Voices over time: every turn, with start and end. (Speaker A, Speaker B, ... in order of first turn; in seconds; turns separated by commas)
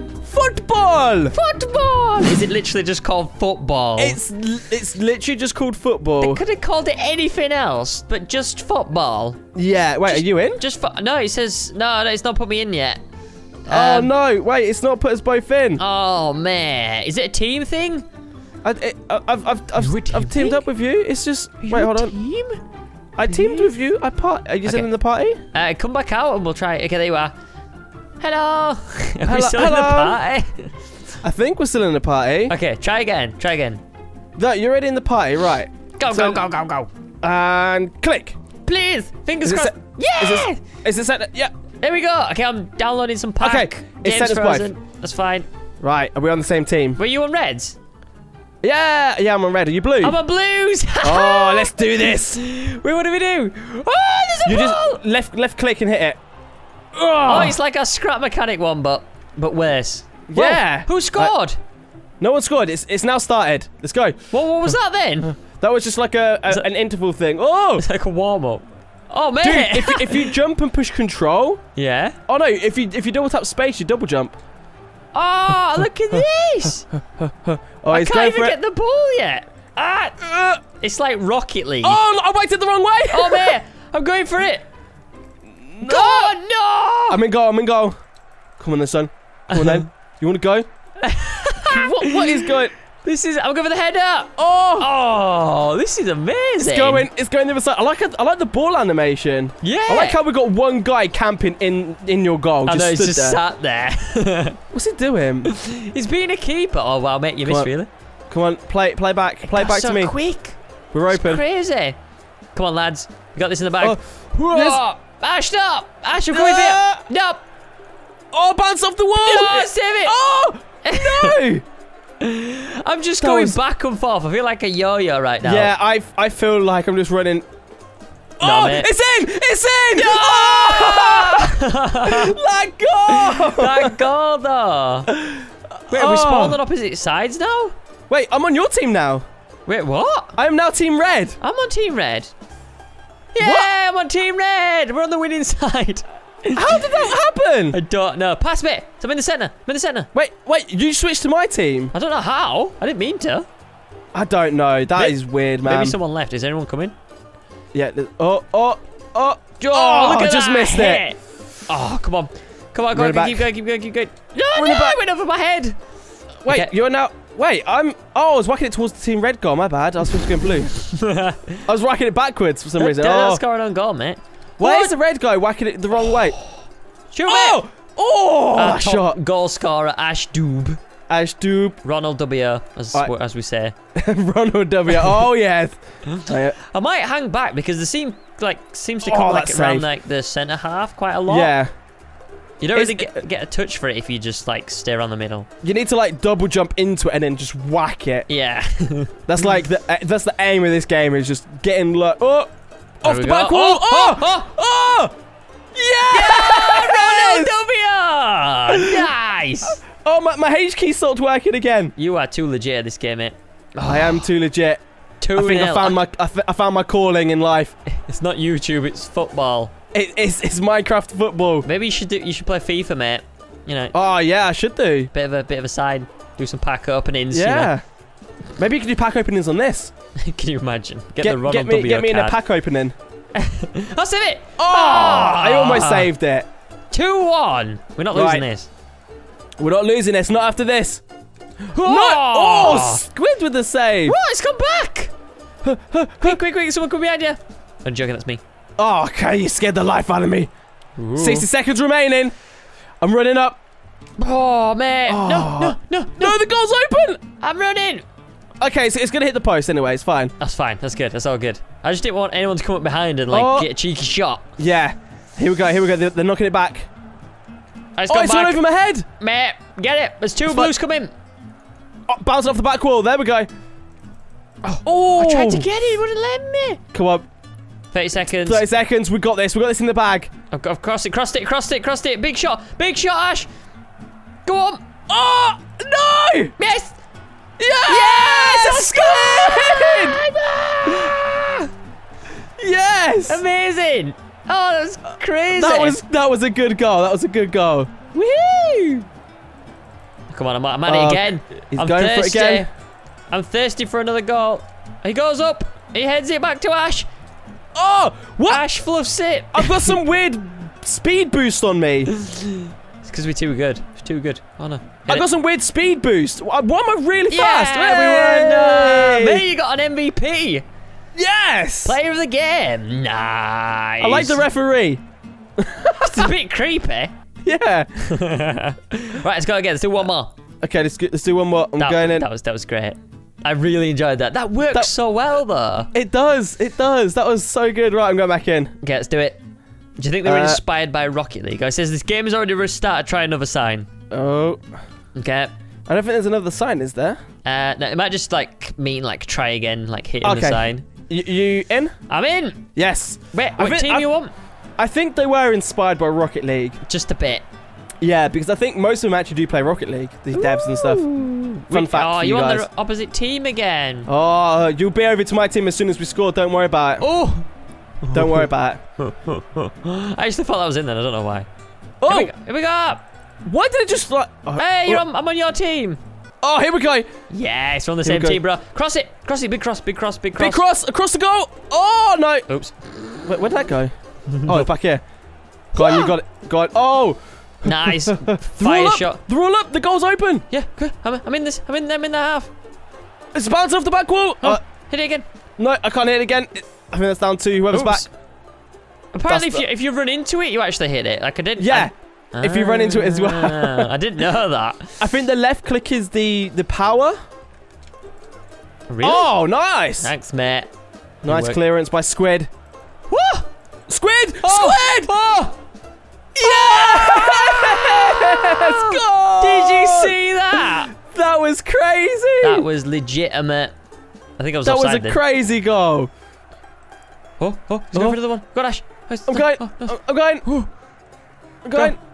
Speaker A: 0.3-1.4, Speaker B: 1.3-4.2, Speaker A: 4.0-6.4, Speaker B: 6.2-9.4, Speaker A: 9.6-10.6, Speaker B: 10.1-13.0, Speaker B: 13.7-14.1, Speaker A: 13.7-15.8, Speaker B: 15.8-18.1, Speaker A: 18.6-22.1, Speaker B: 19.8-20.6, Speaker B: 21.6-22.6, Speaker A: 23.2-25.4, Speaker B: 23.3-23.7, Speaker B: 25.5-27.3, Speaker B: 28.2-30.7, Speaker A: 29.2-30.2, Speaker A: 31.2-32.5, Speaker B: 32.5-33.8, Speaker A: 34.4-36.4, Speaker B: 36.0-36.9, Speaker A: 37.2-38.4, Speaker B: 38.6-40.6, Speaker A: 39.4-41.5, Speaker B: 41.8-45.5, Speaker A: 43.4-44.7, Speaker A: 45.8-47.0, Speaker B: 47.0-47.8, Speaker A: 48.6-50.2, Speaker B: 50.0-55.0, Speaker A: 51.0-52.4, Speaker A: 54.4-56.2, Speaker A: 56.9-57.6, Speaker B: 57.3-61.6, Speaker A: 60.3-61.3, Speaker A: 62.2-64.2, Speaker B: 64.3-65.3, Speaker A: 65.4-67.8, Speaker B: 67.8-70.3, Speaker A: 69.4-71.6, Speaker B: 71.8-72.2, Speaker A: 72.3-74.4, Speaker B: 75.1-76.9, Speaker A: 77.0-78.6, Speaker B: 77.9-80.2, Speaker A: 80.2-80.6, Speaker B: 80.8-82.0, Speaker A: 81.8-83.6, Speaker B: 83.1-84.6, Speaker A: 85.6-86.4, Speaker B: 85.8-87.2, Speaker A: 87.1-88.0, Speaker A: 88.6-90.7, Speaker B: 89.5-89.8, Speaker B: 91.0-97.1, Speaker A: 91.7-92.7, Speaker A: 94.4-94.9, Speaker A: 96.6-103.4, Speaker B: 99.6-100.2, Speaker B: 102.7-104.6, Speaker A: 104.7-105.5, Speaker B: 105.5-107.9, Speaker A: 107.5-107.7, Speaker A: 108.3-110.2, Speaker B: 109.5-110.6, Speaker A: 110.9-111.4, Speaker B: 111.1-112.0, Speaker B: 112.5-117.4, Speaker A: 113.8-114.8, Speaker A: 116.3-117.1, Speaker A: 118.3-121.7, Speaker B: 119.2-120.2, Speaker B: 120.8-121.3, Speaker B: 122.2-125.7, Speaker A: 123.2-123.6, Speaker A: 125.4-127.5, Speaker A: 128.4-134.0, Speaker B: 128.4-128.9, Speaker B: 129.9-132.3, Speaker B: 133.1-135.1, Speaker A: 135.1-136.6, Speaker B: 135.9-137.8, Speaker A: 138.1-139.2, Speaker B: 139.7-140.4, Speaker A: 140.4-141.4, Speaker B: 141.4-142.3, Speaker B: 143.3-146.8, Speaker A: 143.4-143.7, Speaker A: 146.5-147.8, Speaker B: 147.7-150.1, Speaker A: 150.1-151.9, Speaker B: 151.9-153.5, Speaker A: 154.1-156.0, Speaker B: 155.0-156.9, Speaker A: 157.7-161.0, Speaker B: 159.6-165.8, Speaker A: 162.9-163.5, Speaker A: 164.6-165.0, Speaker A: 166.4-170.7, Speaker B: 170.8-171.6, Speaker A: 171.7-173.4, Speaker B: 172.8-174.9, Speaker A: 174.6-176.4, Speaker B: 176.1-176.5, Speaker B: 177.1-177.6, Speaker A: 177.3-179.2, Speaker B: 178.5-180.8, Speaker A: 181.1-181.8, Speaker B: 181.8-183.7, Speaker A: 183.9-186.6, Speaker B: 186.1-191.5, Speaker A: 189.0-189.9, Speaker A: 191.3-191.7, Speaker B: 192.6-195.5, Speaker A: 192.7-193.2, Speaker A: 195.6-198.3, Speaker B: 198.3-199.1, Speaker A: 199.3-205.2, Speaker B: 203.1-204.5, Speaker A: 205.8-207.6, Speaker B: 206.1-209.8, Speaker A: 208.7-209.1, Speaker A: 210.0-211.9, Speaker B: 212.0-214.2, Speaker A: 213.8-214.8, Speaker B: 215.2-216.0, Speaker A: 215.3-217.8, Speaker B: 217.9-219.7, Speaker A: 219.9-221.7, Speaker B: 221.7-223.9, Speaker A: 223.9-225.1, Speaker B: 225.1-227.7, Speaker A: 227.3-227.8, Speaker A: 228.6-229.9, Speaker B: 230.2-232.4, Speaker A: 231.2-232.9, Speaker B: 233.4-236.1, Speaker A: 234.6-236.5, Speaker B: 236.9-238.7, Speaker A: 238.1-238.4, Speaker A: 239.6-241.0, Speaker B: 241.7-243.0, Speaker A: 241.8-244.2, Speaker B: 244.1-245.1, Speaker A: 245.6-246.4, Speaker B: 246.2-248.4, Speaker A: 248.8-250.5, Speaker B: 251.0-251.5, Speaker A: 251.2-252.3, Speaker A: 253.0-253.6, Speaker B: 254.2-256.4, Speaker A: 255.1-257.2, Speaker B: 257.4-258.1, Speaker A: 258.6-260.3, Speaker B: 260.4-264.4, Speaker A: 263.3-263.7, Speaker A: 264.6-266.9, Speaker B: 268.0-268.6, Speaker A: 268.1-269.1, Speaker B: 269.2-271.1, Speaker A: 270.4-270.7, Speaker A: 272.1-273.5, Speaker B: 274.6-276.8, Speaker A: 274.9-275.7, Speaker A: 276.9-277.3, Speaker B: 277.9-278.6, Speaker A: 278.3-280.3, Speaker B: 280.5-283.5, Speaker B: 284.5-284.8, Speaker A: 285.1-286.6, Speaker B: 286.6-287.0, Speaker A: 287.6-290.2, Speaker B: 287.9-291.7, Speaker A: 292.6-293.4, Speaker B: 293.3-296.0, Speaker A: 295.5-298.1, Speaker B: 298.1-299.1, Speaker B: 300.3-302.7, Speaker A: 300.9-302.7, Speaker B: 303.3-307.1, Speaker A: 307.8-308.7, Speaker B: 308.5-309.9, Speaker A: 309.5-312.1, Speaker B: 312.1-315.3, Speaker A: 315.1-319.5, Speaker B: 317.3-320.6, Speaker A: 321.2-322.0, Speaker B: 321.9-324.4, Speaker A: 324.0-325.0, Speaker A: 325.6-326.3, Speaker B: 326.0-327.1, Speaker A: 327.4-328.0, Speaker B: 328.1-330.3, Speaker A: 330.6-332.3, Speaker B: 331.8-335.9, Speaker A: 335.9-338.7, Speaker B: 338.8-339.4, Speaker B: 340.0-343.9, Speaker A: 340.2-340.6, Speaker A: 344.1-344.6, Speaker B: 345.2-345.5, Speaker A: 345.9-347.2, Speaker B: 347.4-350.9, Speaker A: 350.2-351.9, Speaker B: 352.1-352.7, Speaker A: 352.8-354.1, Speaker B: 353.3-354.3, Speaker A: 354.8-356.8, Speaker B: 356.9-357.4, Speaker A: 358.0-361.1, Speaker B: 360.3-364.1, Speaker A: 361.7-362.7, Speaker A: 364.1-367.1, Speaker B: 367.0-367.5, Speaker B: 368.0-371.5, Speaker A: 368.1-368.8, Speaker A: 372.0-372.3, Speaker B: 372.1-373.0, Speaker A: 373.5-375.0, Speaker B: 374.6-376.0, Speaker A: 376.4-377.1, Speaker B: 377.3-380.6, Speaker A: 378.0-378.4, Speaker A: 380.4-382.5, Speaker B: 382.5-383.3, Speaker A: 383.2-383.9, Speaker B: 384.3-384.7, Speaker A: 384.4-385.0, Speaker A: 385.7-390.4, Speaker B: 385.8-386.1, Speaker B: 387.6-389.2, Speaker B: 390.5-392.5, Speaker A: 393.3-394.6, Speaker B: 394.4-395.3, Speaker A: 395.6-398.1, Speaker B: 397.7-398.1, Speaker B: 399.1-405.0, Speaker A: 399.3-399.6, Speaker A: 401.6-403.9, Speaker A: 405.0-407.2, Speaker B: 408.9-409.3, Speaker A: 409.0-410.1, Speaker B: 410.0-410.7, Speaker B: 411.2-411.6, Speaker A: 411.2-412.5, Speaker B: 413.1-413.5, Speaker A: 413.9-415.1, Speaker B: 414.4-415.6, Speaker A: 416.4-422.7, Speaker B: 416.4-420.9, Speaker B: 422.4-423.8, Speaker B: 424.4-425.2, Speaker A: 424.6-426.1, Speaker B: 427.4-430.7, Speaker A: 427.9-428.2, Speaker A: 429.3-430.5, Speaker A: 431.6-432.0